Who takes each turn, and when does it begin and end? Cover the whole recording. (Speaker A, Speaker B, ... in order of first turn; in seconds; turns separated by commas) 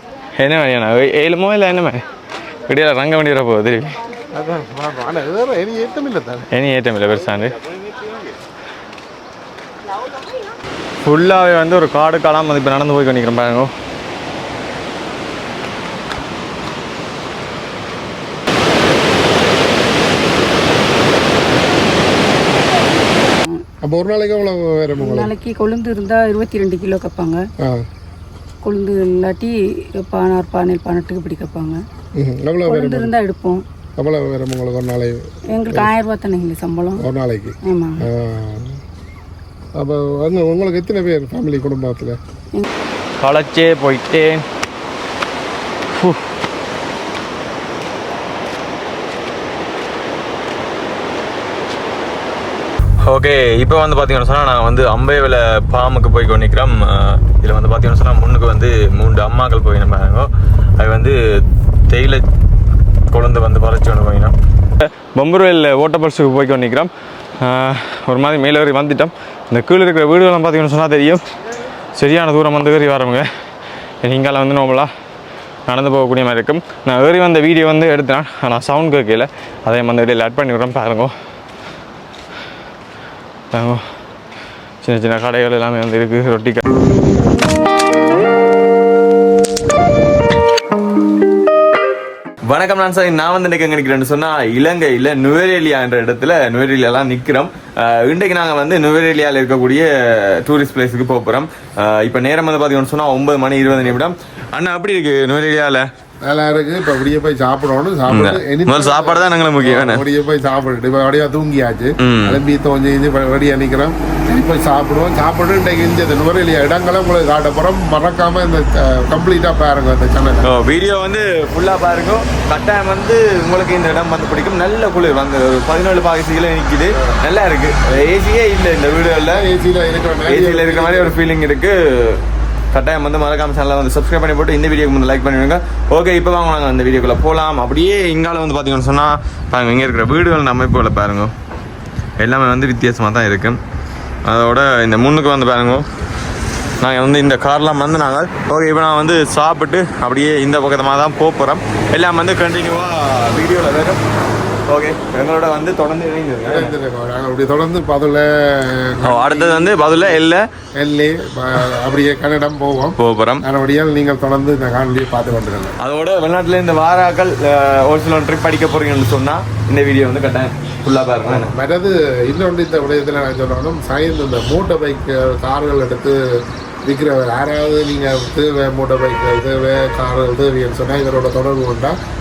Speaker A: 0.4-2.0, Speaker A: 2.7-4.0, Speaker B: 4.3-6.5, Speaker A: 6.5-7.6, Speaker A: 11.1-13.7, Speaker B: 23.8-25.3, Speaker C: 25.0-27.5, Speaker B: 27.6-27.9, Speaker C: 28.6-31.8, Speaker B: 32.1-33.1, Speaker C: 32.7-33.6, Speaker B: 34.0-35.9, Speaker C: 35.5-37.1, Speaker B: 37.0-38.8, Speaker C: 37.6-38.1, Speaker B: 39.8-42.2, Speaker A: 43.2-44.5, Speaker A: 45.9-46.3, Speaker A: 53.0-62.3, Speaker A: 63.1-71.2, Speaker A: 72.0-73.3, Speaker A: 74.0-74.9, Speaker A: 75.7-81.1, Speaker A: 83.5-83.8, Speaker A: 84.8-86.6, Speaker A: 92.5-105.9, Speaker B: 106.2-120.6, Speaker A: 108.1-110.0, Speaker A: 112.0-112.4, Speaker A: 120.4-129.4, Speaker B: 129.3-131.1, Speaker A: 130.3-141.3, Speaker A: 142.2-143.6, Speaker A: 144.2-145.9, Speaker A: 146.8-154.0, Speaker A: 154.7-156.7, Speaker B: 156.4-160.2, Speaker A: 159.0-160.5, Speaker B: 160.8-165.8, Speaker A: 163.0-163.4, Speaker A: 165.8-171.5, Speaker B: 171.2-182.0